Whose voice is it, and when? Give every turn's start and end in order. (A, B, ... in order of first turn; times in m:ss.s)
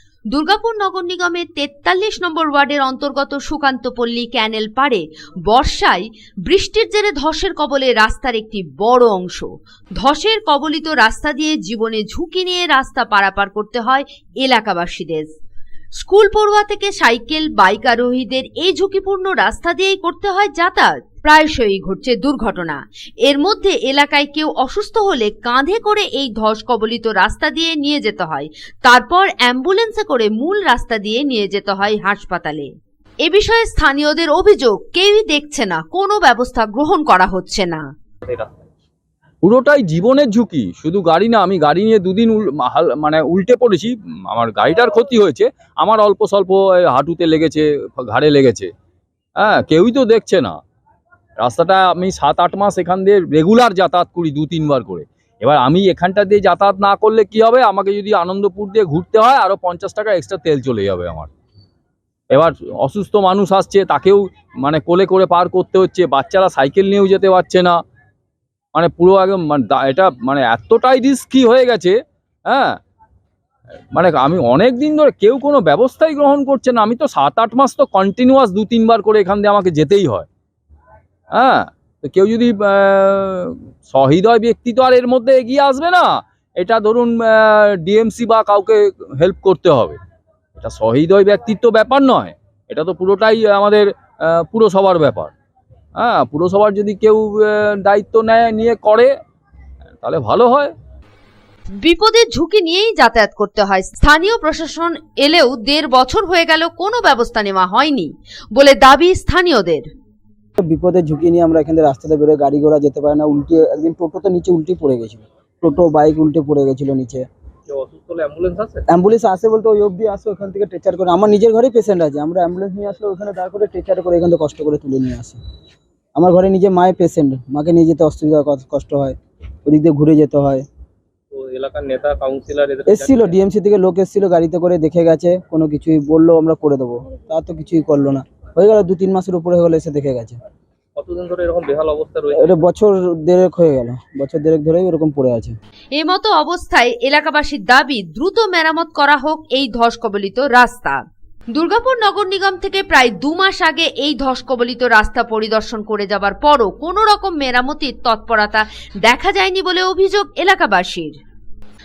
0:00.3-0:15.3 A
0:16.0-0:32.7 A
0:33.2-0:37.8 A
0:38.2-0:38.6 B
0:39.4-0:48.7 C
0:49.4-0:50.6 C
0:51.4-1:01.3 C
1:02.3-1:07.8 C
1:08.7-1:12.8 C
1:13.9-1:20.3 C
1:21.3-1:30.0 C
1:30.6-1:33.8 C
1:34.4-1:35.3 C
1:36.0-1:39.1 C
1:40.0-1:40.7 C
1:41.8-1:49.8 A
1:50.6-1:57.3 D
1:57.7-1:58.8 B
1:58.9-2:05.4 D
2:06.1-2:10.6 D
2:11.3-2:13.5 B
2:12.9-2:20.4 D
2:21.0-2:22.7 B
2:22.4-2:25.6 D
2:25.9-2:31.0 A
2:31.5-2:41.1 A